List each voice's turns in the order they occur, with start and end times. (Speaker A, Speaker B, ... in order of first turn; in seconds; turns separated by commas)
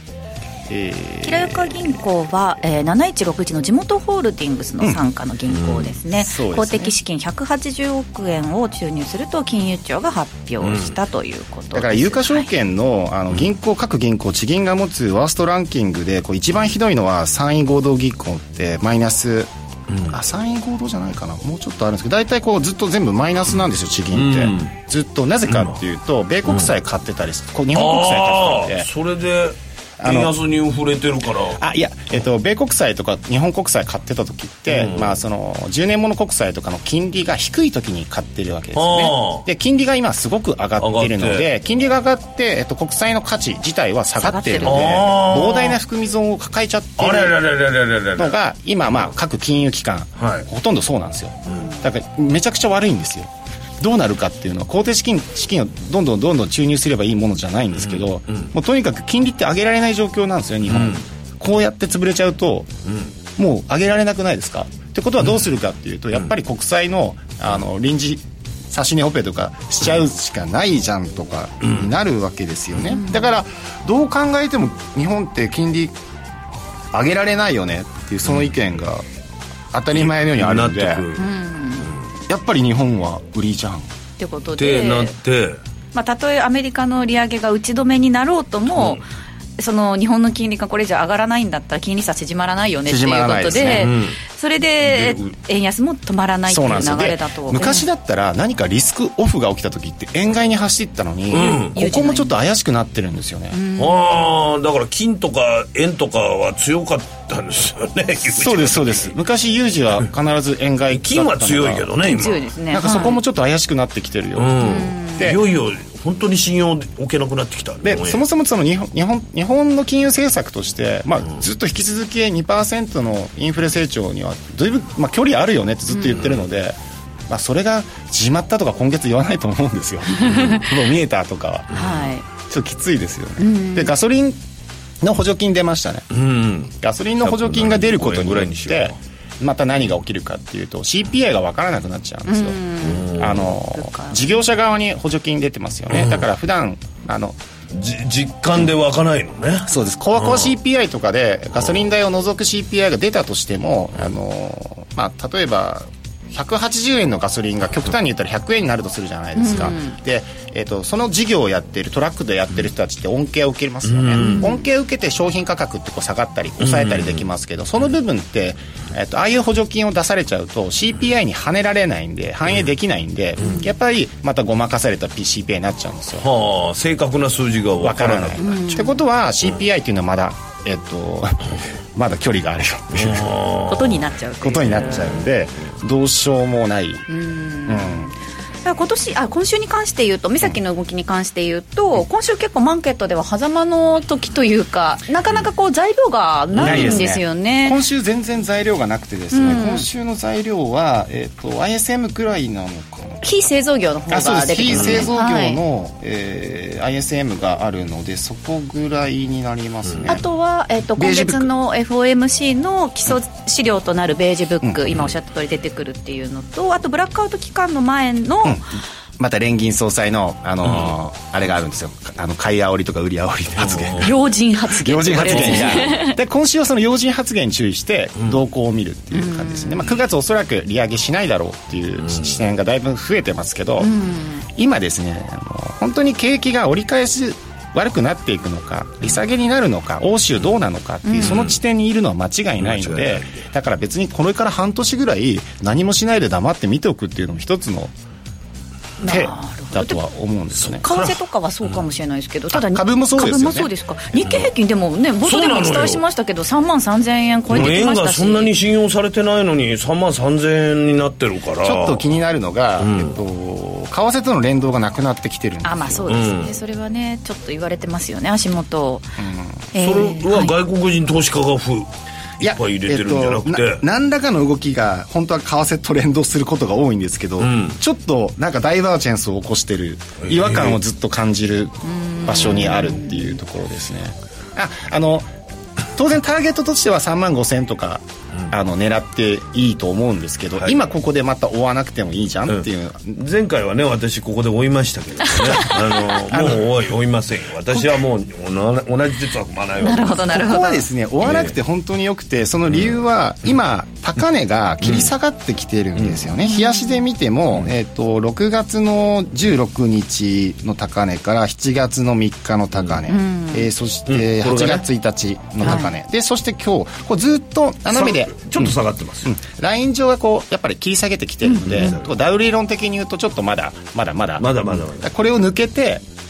Speaker A: 0.7-2.0, Speaker B: 1.2-12.5, Speaker C: 5.5-5.9, Speaker A: 6.1-6.9, Speaker C: 10.6-10.9, Speaker A: 11.7-19.5, Speaker A: 20.1-28.9, Speaker C: 24.1-24.7, Speaker C: 25.5-25.8, Speaker C: 27.7-31.6, Speaker A: 30.0-30.3, Speaker A: 31.6-47.4, Speaker C: 34.7-35.2, Speaker C: 38.7-39.5, Speaker C: 40.8-41.5, Speaker B: 44.2-44.9, Speaker C: 44.6-45.8, Speaker C: 47.0-48.4, Speaker A: 48.1-62.7, Speaker C: 50.2-50.5, Speaker C: 57.8-58.5, Speaker C: 60.7-61.0, Speaker A: 63.4-75.9, Speaker C: 71.6-71.9, Speaker B: 72.9-73.3, Speaker A: 76.9-79.0, Speaker A: 79.7-81.0, Speaker C: 79.9-81.3, Speaker B: 81.2-81.9, Speaker A: 82.3-83.9, Speaker B: 84.2-85.1, Speaker C: 84.6-85.6, Speaker B: 85.9-89.0, Speaker C: 88.7-89.0, Speaker B: 89.6-97.8, Speaker A: 92.8-93.9, Speaker C: 93.7-94.2, Speaker C: 94.8-95.3, Speaker A: 96.5-103.6, Speaker C: 101.3-101.8, Speaker B: 101.3-102.3, Speaker B: 103.5-104.0, Speaker C: 103.8-109.1, Speaker A: 108.2-112.1, Speaker C: 110.9-112.5, Speaker B: 112.0-113.2, Speaker A: 112.7-115.4, Speaker C: 114.3-118.2, Speaker B: 114.6-115.3, Speaker A: 117.8-131.8, Speaker B: 125.9-126.2, Speaker B: 130.2-130.7, Speaker B: 131.7-132.2, Speaker C: 131.7-132.0, Speaker A: 132.3-134.4, Speaker B: 133.4-133.9, Speaker A: 135.0-136.1, Speaker C: 136.1-139.0, Speaker A: 136.8-147.4, Speaker B: 142.2-144.3, Speaker C: 142.8-143.5, Speaker C: 145.9-146.2, Speaker C: 147.7-150.5, Speaker A: 149.7-176.3, Speaker B: 159.4-159.9, Speaker C: 163.8-164.5, Speaker B: 164.2-164.6, Speaker C: 166.6-167.2, Speaker B: 173.4-173.7, Speaker C: 176.2-178.6, Speaker A: 177.8-183.3, Speaker B: 178.4-179.0, Speaker C: 182.9-184.0, Speaker B: 183.7-185.2, Speaker A: 184.4-187.1, Speaker B: 187.1-197.8, Speaker A: 187.7-188.1, Speaker C: 196.6-197.0, Speaker A: 196.6-203.4, Speaker B: 199.3-199.8, Speaker B: 203.2-205.6, Speaker A: 204.1-210.2, Speaker C: 204.7-205.0, Speaker C: 209.9-210.2, Speaker B: 210.0-218.6, Speaker A: 211.0-211.5, Speaker A: 214.6-215.0, Speaker A: 219.2-224.1, Speaker C: 220.7-220.9, Speaker C: 223.6-224.1, Speaker B: 224.0-226.2, Speaker A: 224.7-233.9, Speaker C: 225.2-225.9, Speaker B: 229.1-229.9, Speaker C: 232.0-232.4, Speaker B: 233.8-234.4, Speaker A: 234.5-247.9, Speaker B: 241.0-241.4, Speaker C: 241.2-241.6, Speaker C: 242.6-243.4, Speaker B: 249.0-250.1, Speaker A: 249.1-250.8, Speaker C: 250.6-251.1, Speaker B: 250.8-258.5, Speaker A: 252.5-253.7, Speaker C: 254.2-254.5, Speaker C: 255.2-256.0, Speaker C: 257.5-262.0, Speaker A: 261.6-266.3, Speaker C: 262.8-263.2, Speaker B: 265.6-269.1, Speaker C: 266.1-266.5, Speaker A: 269.2-269.7, Speaker B: 269.7-270.5, Speaker C: 269.8-271.9, Speaker C: 272.4-273.8, Speaker A: 272.4-285.3, Speaker C: 277.4-277.8, Speaker C: 280.2-280.8, Speaker B: 281.8-283.4, Speaker A: 285.9-293.2, Speaker C: 292.5-300.3, Speaker A: 296.3-296.7, Speaker A: 297.7-298.0, Speaker B: 299.8-300.9, Speaker A: 300.3-326.0, Speaker C: 301.2-301.5, Speaker C: 304.8-305.1, Speaker C: 306.0-306.2, Speaker B: 306.4-307.0, Speaker B: 313.1-313.7, Speaker C: 314.1-314.8, Speaker B: 315.6-315.9, Speaker C: 317.9-319.3, Speaker B: 321.4-321.9, Speaker C: 321.6-322.1, Speaker C: 324.4-325.1